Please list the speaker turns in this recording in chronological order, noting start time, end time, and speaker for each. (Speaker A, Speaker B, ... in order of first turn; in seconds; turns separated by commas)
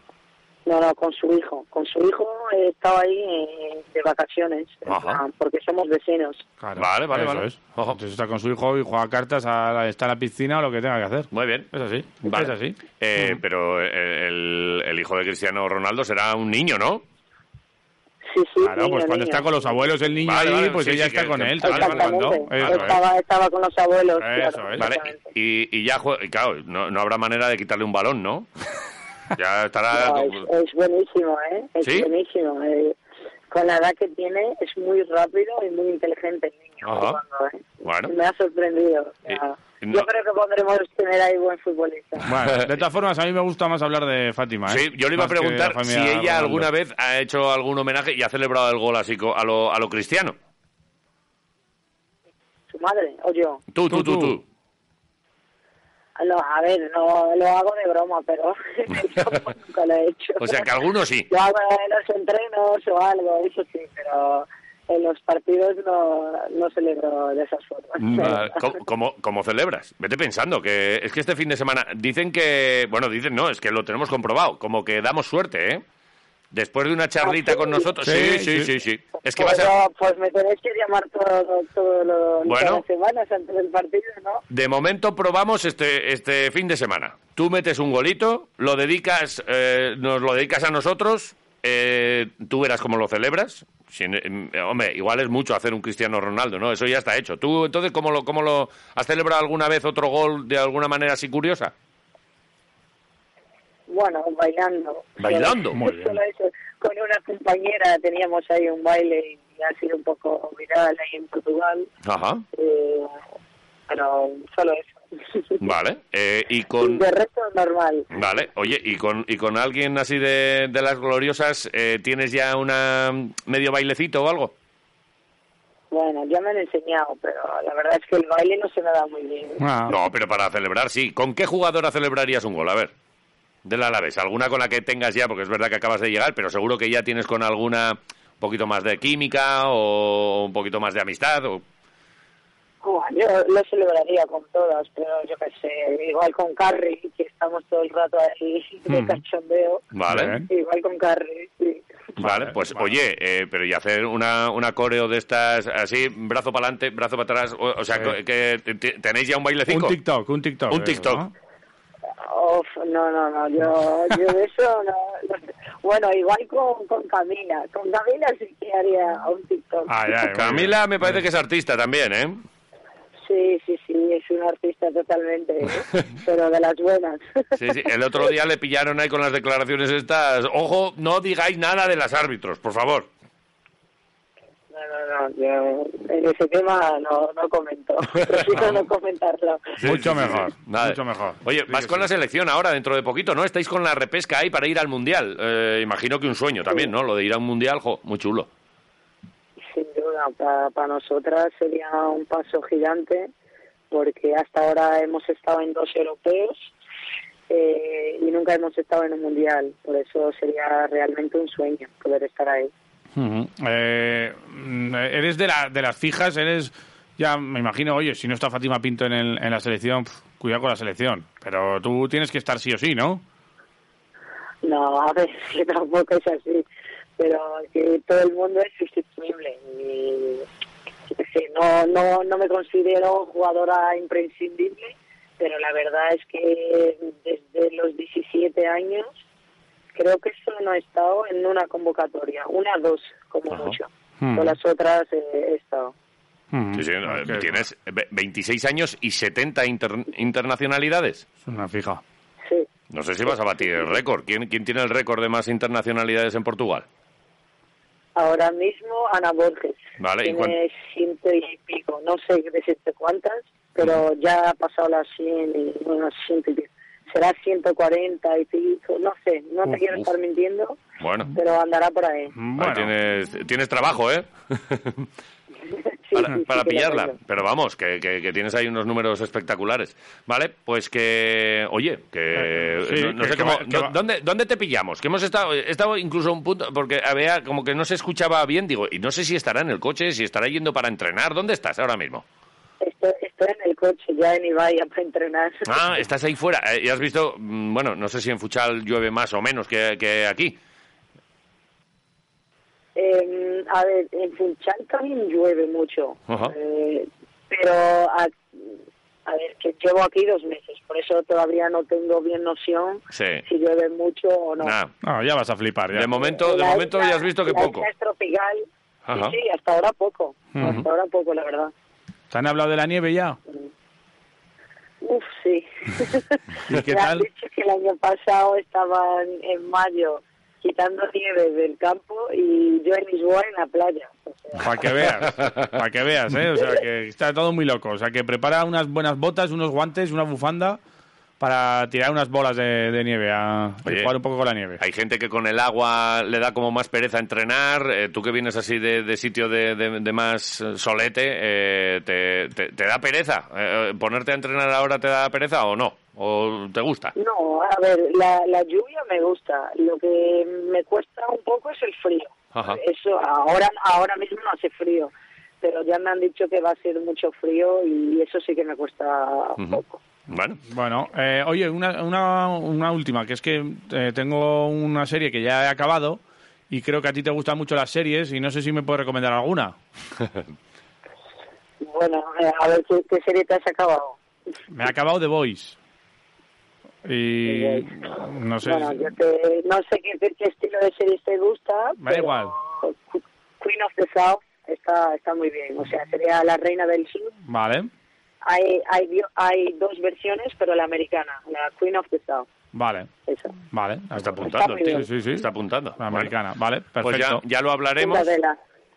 Speaker A: 0.7-6.5, Speaker B: 4.9-5.2, Speaker C: 6.6-13.4, Speaker B: 6.8-8.0, Speaker B: 11.3-11.7, Speaker B: 12.2-17.0, Speaker A: 18.2-19.8, Speaker C: 18.6-23.0, Speaker B: 20.2-23.0, Speaker A: 21.6-25.2, Speaker C: 24.2-24.9, Speaker B: 24.8-28.5, Speaker B: 29.4-30.4, Speaker A: 29.9-33.0, Speaker B: 31.8-32.1, Speaker A: 33.5-42.3, Speaker B: 36.8-37.2, Speaker B: 37.8-38.1, Speaker B: 39.3-40.0, Speaker C: 42.3-46.7, Speaker B: 44.7-50.4, Speaker A: 52.7-53.6, Speaker B: 53.7-54.4, Speaker C: 53.9-54.4, Speaker A: 56.2-60.7, Speaker B: 60.4-61.3, Speaker A: 61.3-68.6, Speaker B: 68.0-75.8, Speaker B: 76.5-79.7, Speaker A: 77.2-77.9, Speaker C: 78.0-78.7, Speaker A: 79.3-84.4, Speaker B: 82.5-82.8, Speaker B: 84.5-101.7, Speaker A: 103.9-111.9, Speaker B: 105.2-105.8, Speaker C: 105.7-106.2, Speaker B: 112.0-112.4, Speaker A: 112.5-113.1, Speaker A: 113.9-115.6, Speaker B: 115.6-117.0, Speaker A: 116.8-118.1, Speaker B: 118.1-124.5, Speaker A: 125.9-129.6, Speaker C: 129.6-129.9, Speaker B: 129.9-132.9, Speaker B: 133.7-141.6, Speaker A: 142.8-149.8, Speaker C: 148.9-149.2, Speaker B: 149.9-150.3, Speaker C: 150.1-150.5, Speaker A: 150.5-151.9, Speaker C: 152.2-152.8, Speaker B: 152.2-160.0, Speaker C: 159.7-161.3, Speaker B: 160.7-161.3, Speaker A: 162.2-170.3, Speaker C: 169.9-171.2, Speaker B: 170.3-172.4, Speaker A: 173.3-177.5, Speaker B: 177.5-183.1, Speaker A: 184.7-189.8, Speaker B: 188.2-188.8, Speaker B: 189.8-198.5, Speaker C: 189.8-192.1, Speaker A: 199.7-203.3, Speaker A: 203.9-206.7, Speaker A: 207.5-212.7, Speaker C: 213.2-223.2, Speaker A: 224.6-226.7, Speaker A: 227.2-230.5, Speaker A: 231.1-239.1, Speaker A: 239.9-245.9, Speaker C: 244.2-244.5, Speaker C: 246.5-247.6, Speaker B: 246.7-251.2, Speaker C: 251.4-252.0, Speaker B: 252.9-256.9, Speaker A: 258.1-272.4, Speaker B: 260.0-260.5, Speaker B: 271.0-271.3, Speaker C: 272.3-272.9, Speaker B: 272.6-275.1, Speaker A: 275.7-277.2, Speaker B: 276.1-292.2, Speaker C: 282.4-284.0, Speaker A: 292.8-295.8, Speaker B: 295.7-300.6, Speaker A: 302.9-314.8, Speaker B: 306.3-306.5, Speaker B: 313.1-313.4, Speaker B: 314.6-314.9, Speaker C: 315.0-316.1, Speaker B: 315.9-317.9, Speaker A: 316.1-321.7, Speaker B: 319.1-319.4, Speaker C: 320.6-320.8, Speaker C: 322.3-323.4, Speaker A: 325.0-334.9, Speaker C: 326.7-327.2, Speaker C: 334.6-340.8, Speaker B: 335.0-335.7, Speaker C: 341.4-344.8, Speaker B: 343.9-344.1, Speaker B: 344.8-357.1, Speaker A: 357.2-370.0, Speaker B: 362.5-362.8, Speaker B: 369.6-370.6, Speaker C: 370.7-379.8, Speaker A: 381.8-384.2, Speaker C: 384.7-385.8, Speaker C: 387.1-389.1, Speaker A: 387.5-397.3, Speaker C: 392.0-392.5, Speaker C: 397.5-397.9, Speaker A: 398.4-402.5, Speaker C: 402.7-403.1, Speaker A: 403.3-403.6, Speaker C: 403.7-407.4, Speaker B: 404.1-406.4, Speaker A: 404.4-405.1, Speaker B: 407.0-408.3, Speaker A: 408.0-408.6